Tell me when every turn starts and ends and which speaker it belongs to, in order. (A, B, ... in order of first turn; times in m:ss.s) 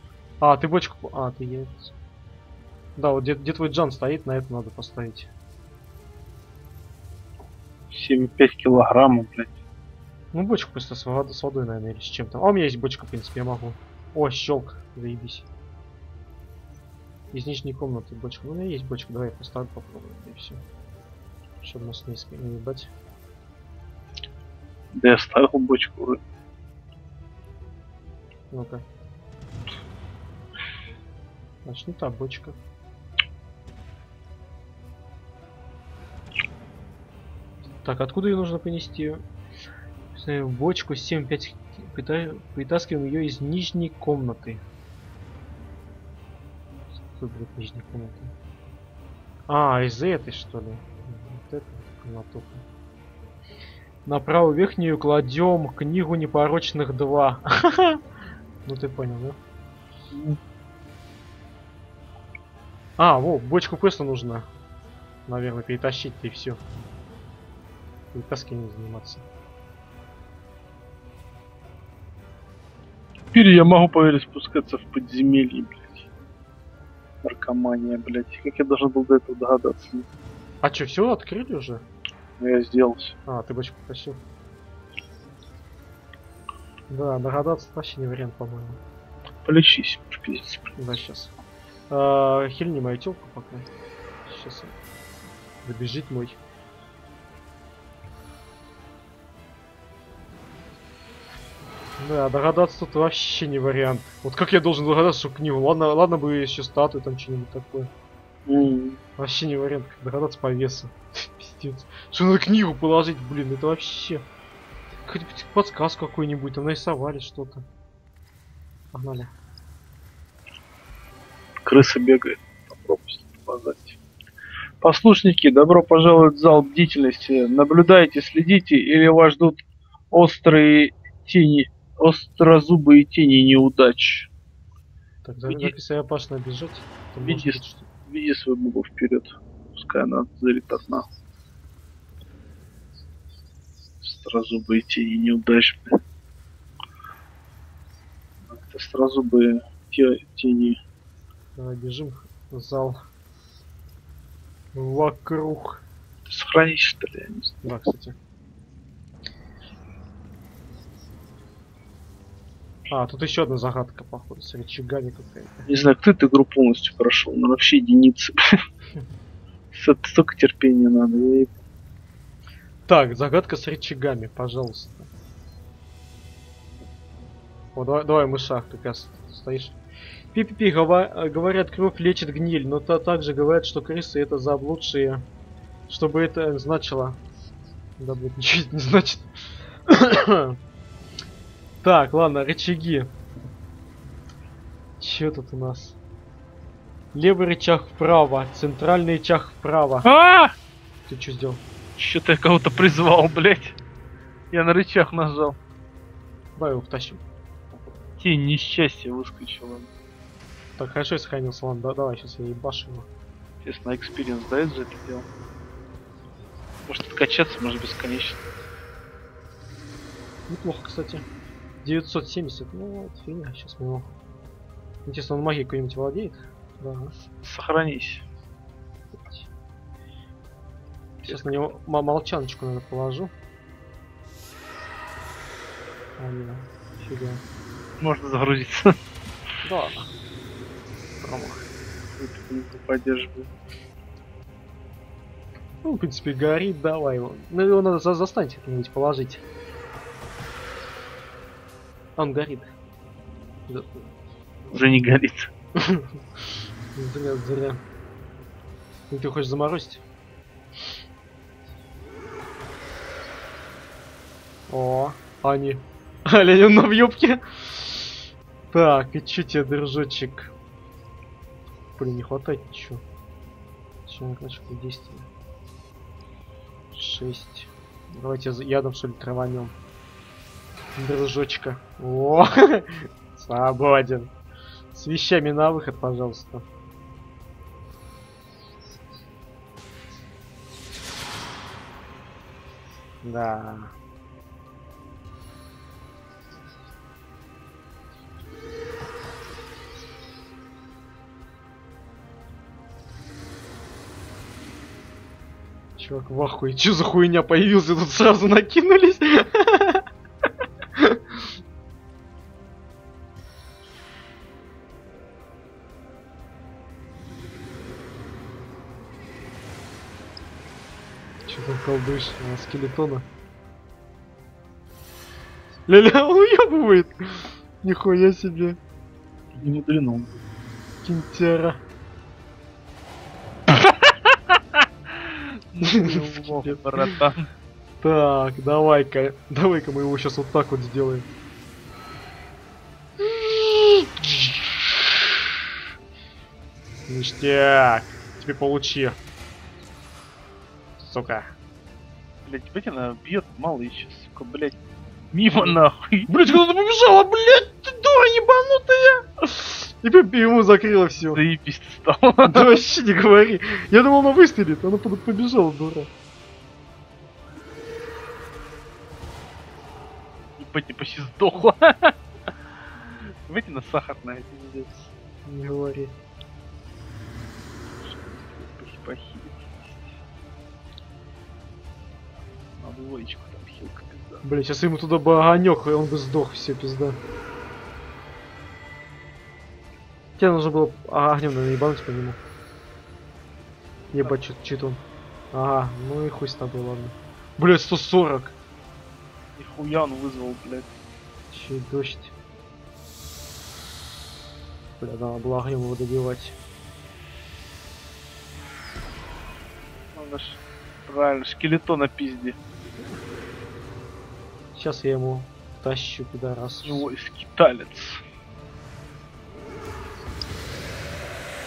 0:00.4-0:01.9 A
0:03.0-0:05.3 A
0:07.9-0:09.6 B
0:10.3-0:15.5 A
0:17.3-0:20.6 A
0:21.6-0:22.9 A
0:24.9-0:26.2 B
0:28.5-0:28.8 A
0:31.6-0:32.6 A
0:37.8-0:39.2 A
0:40.1-0:44.6 A
0:47.1-0:48.3 A
0:49.5-0:52.6 A
0:54.0-0:58.0 A
0:58.6-0:59.4 A
1:00.1-1:00.4 B
1:03.0-1:04.5 A
1:05.3-1:06.6 A
1:08.1-1:09.3 A
1:13.3-1:16.0 B
1:17.2-1:20.1 B
1:20.6-1:21.8 A
1:22.4-1:23.2 B
1:23.3-1:24.2 A
1:26.9-1:28.8 A
1:29.4-1:30.7 B
1:30.8-1:31.3 A
1:31.9-1:33.7 A
1:34.2-1:34.8 A
1:35.6-1:36.4 A
1:42.0-1:47.9 A
1:48.5-1:49.0 B
1:49.2-1:54.2 A
1:55.0-1:57.7 A
1:58.9-1:59.3 A
2:01.6-2:04.0 B
2:04.8-2:09.6 B
2:10.1-2:14.3 B
2:15.2-2:17.9 A
2:15.5-2:15.7 B
2:17.2-2:21.1 B
2:24.0-2:26.0 B
2:28.5-2:30.8 B
2:31.6-2:33.0 A
2:34.7-2:35.8 A
2:36.3-2:37.8 B
2:37.6-2:38.2 A
2:42.9-2:45.7 A
2:45.7-2:48.5 B
2:49.7-2:51.5 B
2:52.9-2:55.1 A
2:57.8-2:59.8 A
3:00.3-3:05.2 A
3:05.9-3:07.2 A
3:08.0-3:09.3 A
3:09.9-3:10.6 A
3:11.8-3:13.1 A
3:15.0-3:16.0 A
3:17.1-3:20.1 A
3:20.0-3:20.5 B
3:21.1-3:21.6 A
3:22.0-3:23.8 B
3:24.5-3:25.6 B
3:26.6-3:27.2 A
3:28.2-3:29.9 B
3:30.8-3:33.1 A
3:33.6-3:35.3 B
3:36.9-3:38.4 B
3:40.5-3:41.3 A
3:41.8-3:44.1 A
3:45.1-3:47.1 A
3:47.3-3:48.3 B
3:49.2-3:49.5 A
3:51.2-3:53.3 A
3:51.3-3:51.6 B
3:56.2-3:57.4 A
3:58.0-3:59.0 B
3:59.6-4:00.1 A
4:01.2-4:01.6 A
4:02.2-4:03.5 B
4:05.8-4:09.4 A
4:12.2-4:12.7 A
4:13.7-4:14.1 A
4:14.7-4:15.5 B
4:15.8-4:16.1 A
4:17.0-4:17.8 A
4:19.1-4:20.0 A
4:24.7-4:30.5 A
4:32.0-4:33.0 A
4:34.1-4:35.3 A
4:36.9-4:39.7 A
4:41.0-4:44.3 A
4:44.9-4:46.7 A
4:53.2-4:53.9 A
5:06.0-5:10.1 A
5:11.0-5:11.5 A
5:21.5-5:23.3 A
5:25.9-5:28.8 A
5:29.6-5:30.4 B
5:31.0-5:31.8 A
5:33.7-5:34.2 B
5:35.1-5:37.5 B
5:35.8-5:37.1 A
5:38.0-5:41.3 A
5:43.2-5:44.9 A
5:47.1-5:49.2 A
5:51.0-5:51.5 A
5:52.5-5:54.8 B
5:55.3-5:56.3 B
5:56.3-6:01.4 A
6:01.3-6:02.8 B
6:02.4-6:06.1 A
6:10.6-6:12.2 B
6:13.5-6:15.1 B
6:15.4-6:16.2 A
6:18.0-6:20.0 B
6:22.8-6:24.4 B
6:24.4-6:27.2 A
6:30.4-6:32.4 A
6:34.1-6:38.6 A
6:39.6-6:40.9 B
6:41.5-6:42.3 A
6:45.0-6:46.6 A
6:50.2-6:52.6 B
6:54.7-6:57.1 A
6:56.8-6:58.2 B